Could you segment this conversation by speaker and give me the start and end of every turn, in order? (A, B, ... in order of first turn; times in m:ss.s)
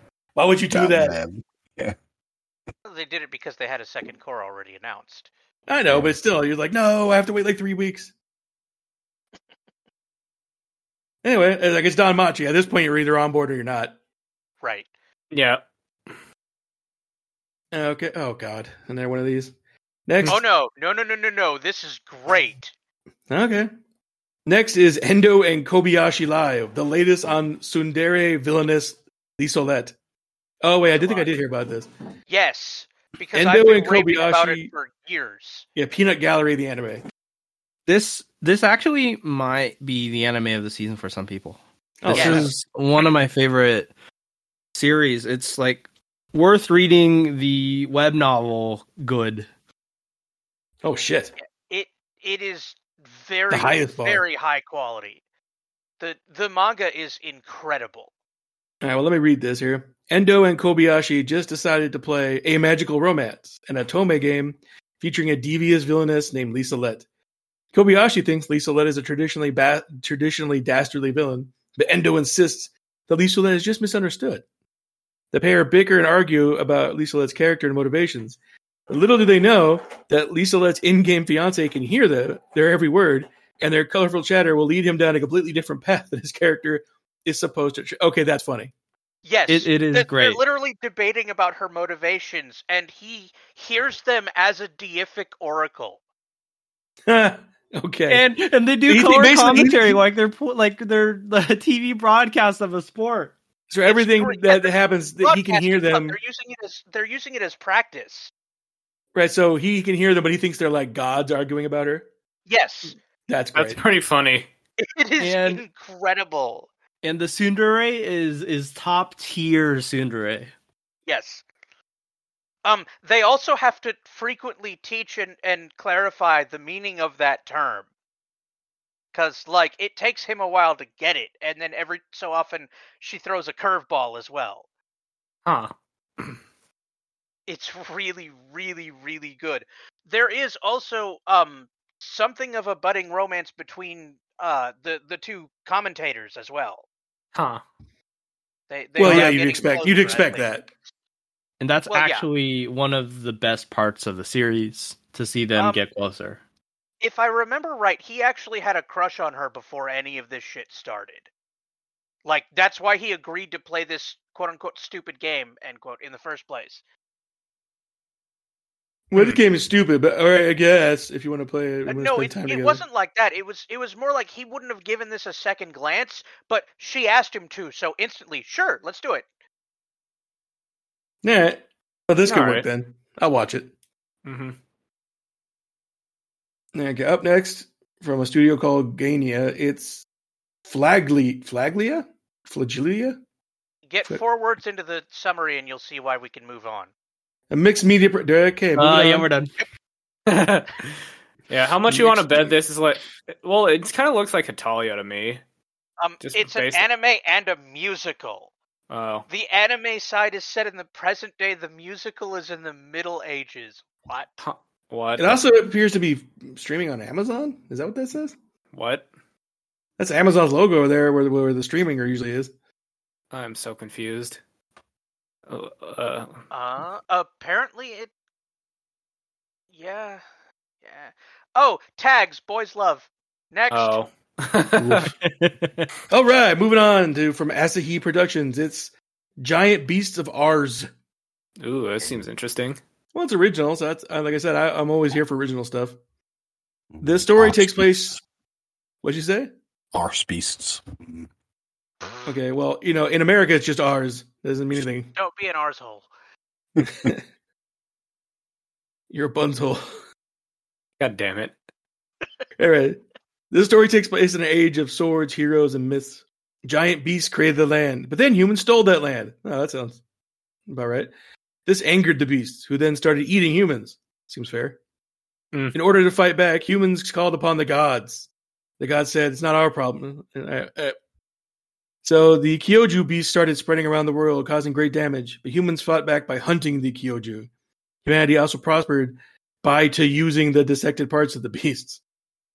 0:00.4-0:01.2 A
0:00.7-0:01.9 B
0:02.8-0:05.3 C
0:05.7-0:08.1 A
0:05.9-0:06.2 B
0:11.2-0:13.9 A
0:14.6-0:14.9 C
0:15.3-0:15.6 D
0:17.7-0:19.5 A
0:20.1-0:20.4 A
0:20.3-0:22.7 C
0:23.3-0:23.7 A
0:24.4-0:29.9 A
0:30.6-0:31.9 A
0:30.9-0:31.3 C
0:32.3-0:35.7 C
0:33.3-0:34.7 A
0:35.7-0:37.0 A
0:37.9-0:43.9 E
0:42.0-0:42.5 A
0:42.1-0:43.1 C
0:44.7-0:49.5 E
0:50.8-0:51.3 A
0:51.4-0:55.2 C
0:53.5-0:54.2 A
0:56.0-0:58.1 C
0:58.8-1:07.0 A
1:07.7-1:14.4 A
1:15.3-1:18.4 A
1:18.9-1:28.7 A
1:29.2-1:36.0 C
1:29.5-1:30.4 E
1:37.1-1:38.3 A
1:38.1-1:43.3 E
1:38.8-1:40.0 A
1:43.7-1:46.2 A
1:43.9-1:48.3 C
1:49.1-1:52.1 A
1:52.5-1:53.0 C
1:53.3-1:53.8 A
1:53.5-1:54.5 D
1:54.8-1:56.7 C
1:55.2-1:55.6 E
1:57.0-2:00.5 E
2:01.1-2:01.4 C
2:02.6-2:07.8 C
2:09.1-2:14.6 C
2:15.4-2:16.4 D
2:17.5-2:26.8 C
2:27.3-2:27.6 D
2:28.7-2:30.5 C
2:29.0-2:30.7 A
2:31.6-2:36.4 E
2:31.9-2:32.3 C
2:35.5-2:35.8 C
2:37.0-2:41.3 C
2:42.2-2:46.8 C
2:49.1-2:52.8 A
2:49.1-2:49.4 D
2:51.9-2:59.2 C
3:01.2-3:03.7 A
3:02.2-3:02.6 D
3:04.2-3:04.6 D
3:06.7-3:10.0 A
3:10.6-3:13.2 A
3:13.9-3:16.9 C
3:17.5-3:19.3 A
3:18.7-3:19.6 E
3:20.3-3:25.4 D
3:21.9-3:22.5 A
3:26.0-3:28.5 C
3:26.2-3:26.9 D
3:28.9-3:29.2 D
3:29.3-3:34.3 C
3:34.4-3:35.4 D
3:35.2-3:38.4 A
3:38.7-3:39.0 D
3:40.0-3:42.5 A
3:43.3-3:44.4 D
3:45.5-3:46.4 D
3:46.5-3:48.1 C
3:49.7-3:50.2 C
3:50.8-3:54.0 C
3:53.7-3:55.0 D
3:54.7-3:55.1 A
3:55.0-3:55.9 E
3:56.1-4:00.9 A
4:01.6-4:02.8 D
4:03.1-4:06.0 A
4:06.9-4:08.1 B
4:07.0-4:08.2 A
4:09.0-4:09.5 A
4:09.9-4:11.3 B
4:12.0-4:12.3 C
4:12.2-4:15.1 A
4:15.2-4:16.1 C
4:16.8-4:17.1 B
4:16.8-4:17.2 A
4:19.1-4:19.8 A
4:21.0-4:21.5 D
4:22.6-4:30.0 A
4:30.7-4:31.1 A
4:31.6-4:34.8 A
4:35.7-4:38.3 A
4:38.8-4:40.9 A
4:42.0-4:47.5 A
4:48.0-4:52.0 A